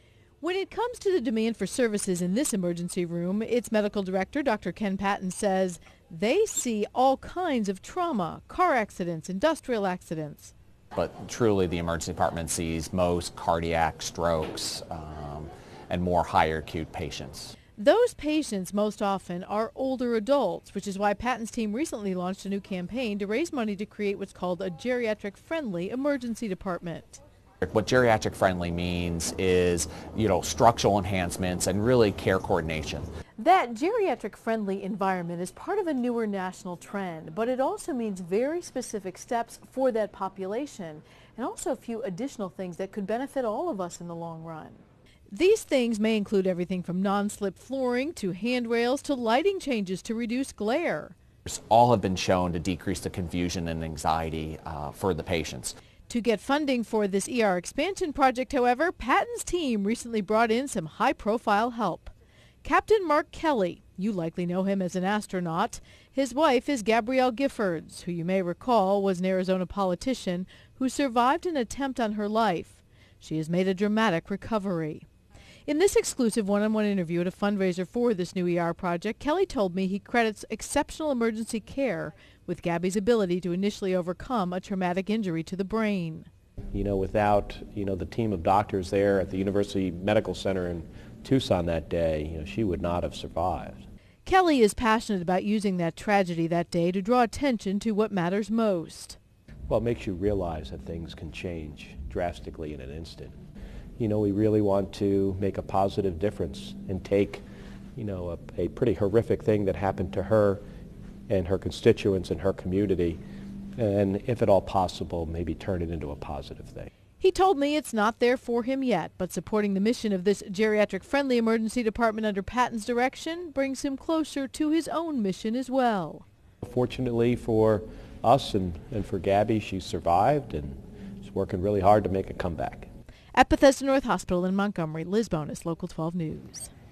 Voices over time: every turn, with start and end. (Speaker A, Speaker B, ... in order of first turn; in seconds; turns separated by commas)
Speaker A: 0.4-10.5, Speaker B: 10.9-17.5, Speaker A: 17.8-27.2, Speaker B: 27.6-33.1, Speaker A: 33.4-51.1, Speaker B: 51.5-55.7, Speaker A: 56.1-62.1, Speaker A: 62.6-75.0, Speaker A: 75.7-86.3, Speaker C: 86.7-93.8, Speaker A: 94.2-99.2, Speaker C: 99.7-103.3, Speaker C: 104.0-107.4, Speaker C: 108.0-110.6, Speaker C: 111.3-113.2, Speaker C: 113.8-116.9, Speaker A: 117.2-126.2, Speaker C: 126.6-132.9, Speaker A: 133.3-136.7